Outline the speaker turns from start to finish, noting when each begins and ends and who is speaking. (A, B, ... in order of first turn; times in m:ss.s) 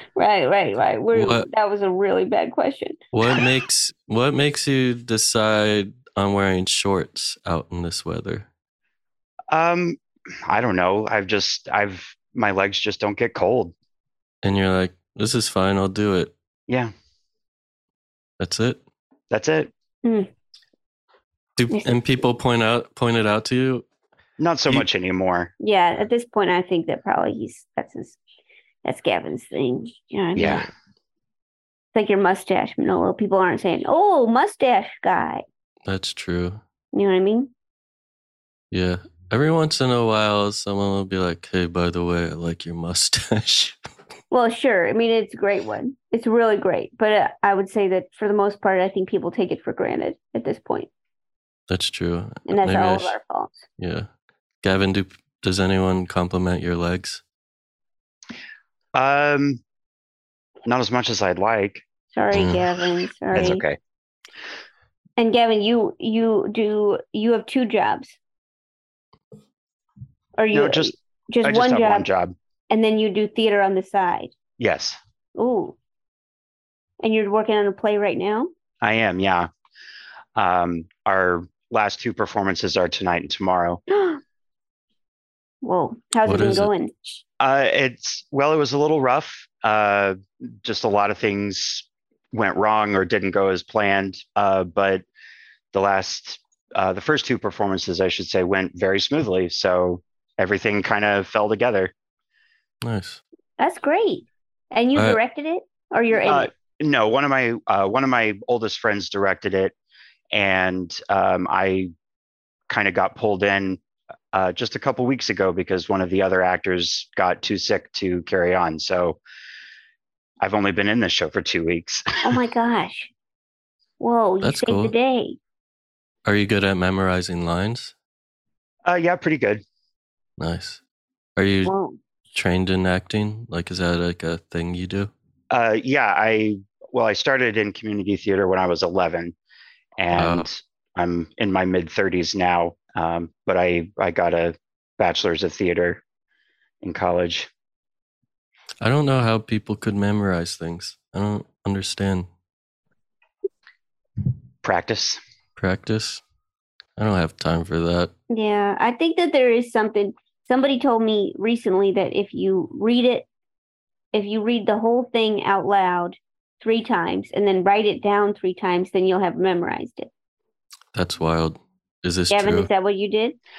0:00.2-0:03.0 A
0:01.1-0:01.5 B
0:03.1-0:08.5 B
0:09.5-0:13.7 C
0:14.4-0:16.3 B
0:16.7-0:16.9 C
0:18.4-0:18.8 B
0:19.3-0:19.7 C
0:20.0-0:20.3 A
0:21.6-0:23.8 B
0:21.7-0:22.0 A
0:24.4-0:25.5 C
0:25.6-0:28.2 A
0:28.8-0:30.7 A
0:30.3-0:30.7 C
0:31.9-0:35.4 A
0:35.8-0:36.6 B
0:36.9-0:37.5 A
0:38.7-0:43.8 B
0:44.3-0:50.9 A
0:51.7-0:53.2 B
0:52.5-0:53.6 A
0:53.8-0:54.1 B
0:54.6-0:57.2 B
0:58.9-0:59.6 C
1:00.6-1:01.8 C
1:02.1-1:03.6 A
1:02.3-1:02.7 B
1:03.3-1:03.8 C
1:05.2-1:08.2 A
1:10.4-1:12.1 A
1:10.5-1:12.3 C
1:12.7-1:14.3 A
1:14.6-1:15.0 C
1:15.4-1:15.8 A
1:17.0-1:18.5 A
1:18.8-1:19.5 C
1:20.4-1:23.8 C
1:23.9-1:24.2 A
1:25.6-1:27.2 A
1:26.2-1:26.7 B
1:27.4-1:35.0 C
1:35.7-1:41.9 C
1:42.8-1:43.2 B
1:43.6-1:46.5 A
1:46.2-1:49.7 C
1:50.3-1:51.9 C
1:52.7-1:53.8 C
1:54.3-1:59.2 C
2:00.4-2:02.4 C
2:02.2-2:03.1 A
2:04.0-2:05.4 A
2:04.4-2:04.9 B
2:06.2-2:07.9 B
2:08.8-2:09.6 C
2:10.4-2:10.8 B
2:11.4-2:11.7 B
2:11.6-2:12.0 A
2:12.3-2:15.1 B
2:15.5-2:19.3 C
2:20.0-2:26.0 C
2:20.1-2:20.4 B
2:26.8-2:27.5 C
2:28.8-2:32.3 B
2:34.6-2:35.2 C
2:35.6-2:36.2 B
2:37.0-2:38.1 B
2:38.3-2:43.2 A
2:44.1-2:50.1 A
2:50.9-2:52.7 B
2:52.3-2:53.4 A